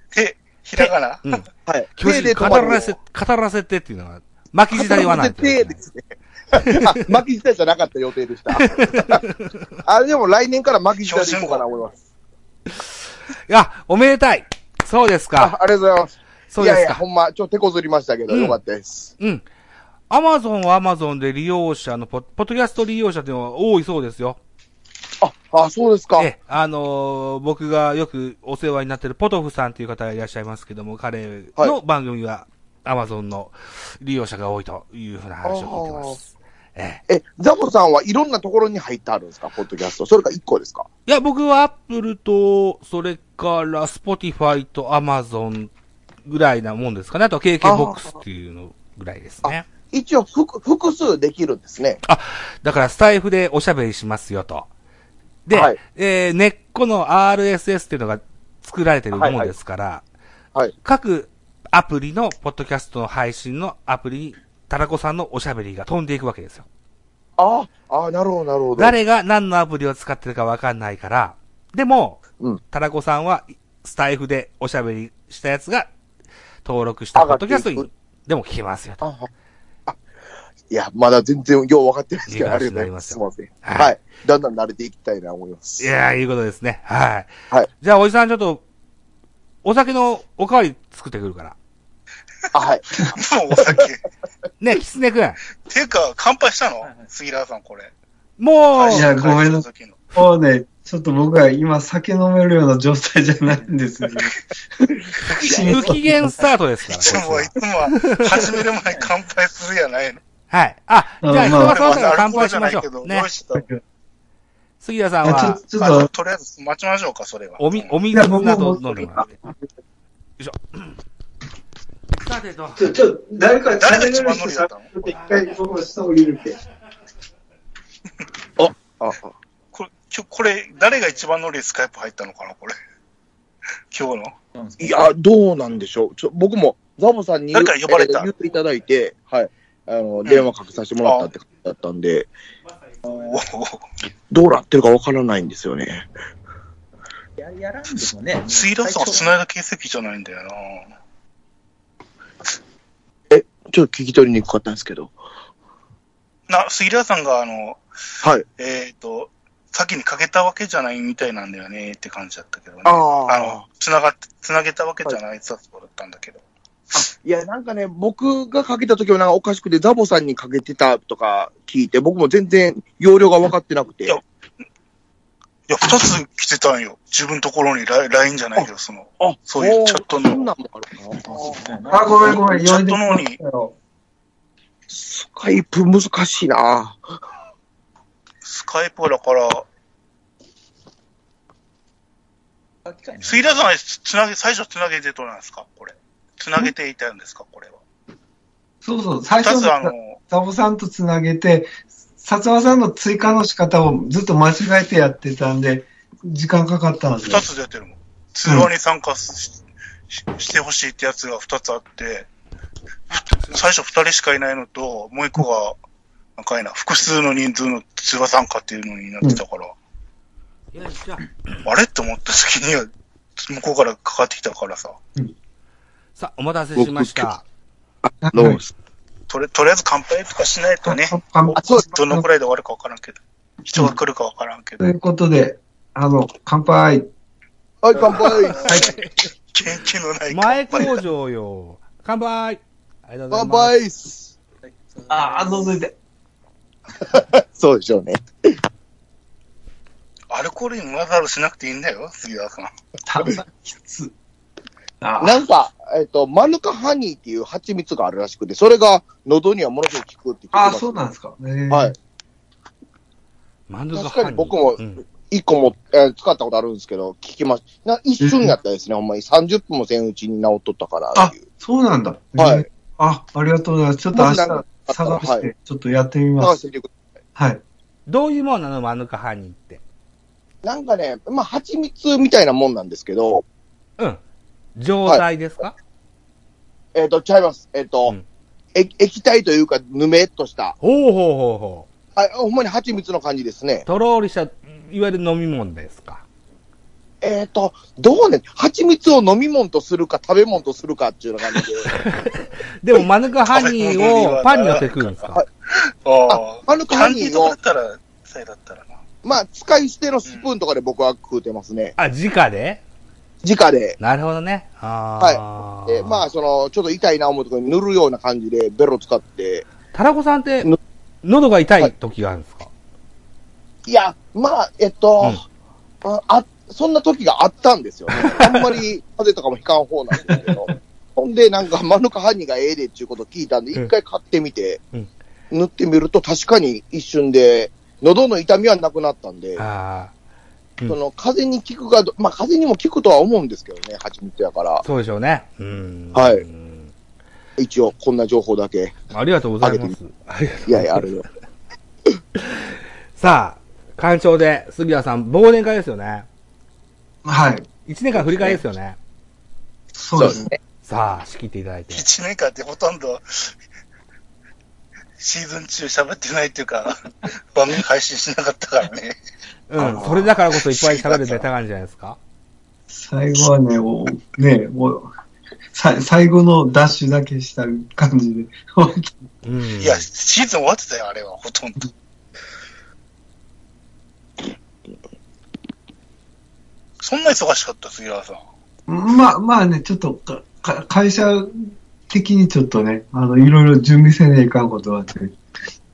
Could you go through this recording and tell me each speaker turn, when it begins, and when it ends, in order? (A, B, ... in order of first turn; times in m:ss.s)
0:00.1-0:01.4 A
0:00.8-0:01.5 B
0:01.7-0:03.0 C
0:02.0-0:05.8 B
0:04.7-0:09.2 C
0:06.6-0:07.0 B
0:08.5-0:09.6 B
0:09.8-0:12.0 C
0:11.0-0:11.6 A
0:12.7-0:15.5 B
0:15.4-0:19.1 C
0:16.5-0:17.0 B
0:18.3-0:18.6 B
0:19.2-0:19.4 B
0:20.1-0:24.4 B
0:25.2-0:26.3 C
0:26.2-0:37.0 B
0:35.4-0:36.2 C
0:37.1-0:40.9 C
0:41.1-0:45.7 B
0:46.2-0:49.7 B
0:47.6-0:48.2 C
0:49.4-0:52.0 C
0:52.1-0:54.7 B
0:55.5-1:00.0 B
0:55.5-0:55.8 C
0:59.1-0:59.5 C
1:00.8-1:06.7 B
1:07.4-1:08.9 C
1:08.8-1:12.2 B
1:12.7-1:15.9 B
1:16.6-1:19.0 B
1:17.2-1:17.9 C
1:19.0-1:19.3 C
1:20.7-1:25.9 C
1:22.3-1:23.9 B
1:25.8-1:28.6 B
1:29.6-1:31.6 B
1:32.5-1:33.1 C
1:33.0-1:34.0 A
1:34.6-1:35.4 B
1:35.7-1:37.9 A
1:36.8-1:37.1 D
1:38.4-1:39.1 B
1:38.7-1:40.0 A
1:38.9-1:46.4 E
1:45.2-1:48.6 B
1:45.5-1:46.6 D
1:46.9-1:50.2 A
1:48.6-1:49.1 D
1:50.5-1:53.3 B
1:51.2-1:52.0 E
1:51.4-1:53.7 A
1:53.6-1:53.8 E
1:54.8-1:55.6 B
1:55.2-1:56.1 E
1:55.8-1:57.9 A
1:57.6-1:59.3 B
1:58.1-1:59.4 E
2:00.4-2:01.0 B
2:02.2-2:02.9 B
2:02.8-2:06.6 E
2:03.8-2:05.0 A
2:08.6-2:09.3 C
2:09.7-2:12.7 A
2:13.9-2:14.4 A
2:14.6-2:15.0 D
2:14.8-2:22.3 C
2:17.5-2:18.3 A
2:23.0-2:23.8 A
2:24.3-2:26.1 C
2:27.4-2:29.4 D
2:28.5-2:30.9 A
2:33.3-2:35.2 C
2:36.5-2:37.8 A
2:38.6-2:46.4 A
2:42.8-2:43.6 C
2:46.9-2:54.2 C
2:55.7-3:00.5 A
2:59.2-3:01.8 C
3:01.4-3:02.5 D
3:01.9-3:03.8 E
3:02.2-3:03.4 A
3:04.9-3:07.0 C
3:08.4-3:09.7 A
3:12.8-3:13.7 D
3:13.2-3:17.8 A
3:18.8-3:21.7 E
3:19.4-3:20.2 A
3:22.2-3:27.4 E
3:27.3-3:29.6 A
3:30.1-3:32.3 A
3:33.1-3:35.8 A
3:33.1-3:33.6 B
3:36.4-3:39.7 A
3:40.7-3:41.3 B
3:41.6-3:45.0 A
3:46.2-3:47.4 B
3:46.8-3:47.3 C
3:48.2-3:48.6 E
3:48.3-3:48.7 C
3:49.3-3:51.2 A
3:50.9-3:52.2 E
3:51.5-3:51.8 C
3:51.8-3:54.8 A
3:54.8-3:57.1 E
3:57.8-3:58.7 C
3:58.2-3:58.8 A
3:58.6-3:58.8 D
3:58.7-3:59.0 E
3:58.7-3:59.1 B
3:59.5-4:01.0 A
4:00.3-4:03.8 B
4:03.3-4:04.3 C
4:04.6-4:05.8 D
4:05.1-4:05.9 E
4:07.0-4:08.6 C
4:10.3-4:12.7 A
4:13.1-4:14.1 E
4:15.0-4:15.4 E
4:15.2-4:21.0 C
4:20.5-4:21.9 E
4:23.7-4:25.0 B
4:23.9-4:31.4 C
4:28.2-4:28.6 E
4:31.2-4:36.6 E
4:32.4-4:32.6 C
4:34.1-4:35.5 C
4:36.4-4:36.9 C
4:37.4-4:37.6 E
4:38.1-4:39.8 B
4:40.6-4:43.4 C
4:44.8-4:45.8 B
4:47.0-4:48.2 C
4:48.8-4:50.8 C
4:50.8-4:51.9 B
4:52.2-4:53.9 C
4:53.9-4:56.2 B
4:57.2-5:02.0 C
5:01.9-5:05.4 B
5:03.5-5:05.4 A
5:06.0-5:09.0 A
5:06.3-5:07.6 C
5:09.2-5:12.0 C
5:12.0-5:12.8 B
5:13.4-5:14.0 C
5:14.0-5:16.3 B
5:15.2-5:19.7 C
5:19.9-5:20.7 B
5:21.2-5:22.7 B
5:23.9-5:25.4 C
5:26.0-5:34.8 C
5:28.2-5:28.8 B
5:35.5-5:39.6 C
5:39.6-5:40.1 B
5:40.9-5:44.8 C
5:44.8-5:46.9 B
5:46.1-5:46.4 C
5:47.6-5:49.0 C
5:49.1-5:51.1 B
5:49.6-5:49.9 C
5:50.7-5:51.3 C
5:52.4-5:56.3 B
5:57.2-5:57.7 E
5:57.9-5:59.0 B
5:58.2-5:58.6 C
6:00.0-6:00.4 E
6:00.2-6:00.6 C
6:00.8-6:02.1 B
6:01.9-6:03.5 A
6:05.2-6:09.1 A
6:09.7-6:12.2 B
6:09.8-6:10.3 C
6:10.6-6:11.4 A
6:12.9-6:15.1 E
6:15.7-6:19.3 E
6:19.4-6:20.1 B
6:19.8-6:21.9 A
6:27.0-6:28.4 A
6:28.9-6:35.4 E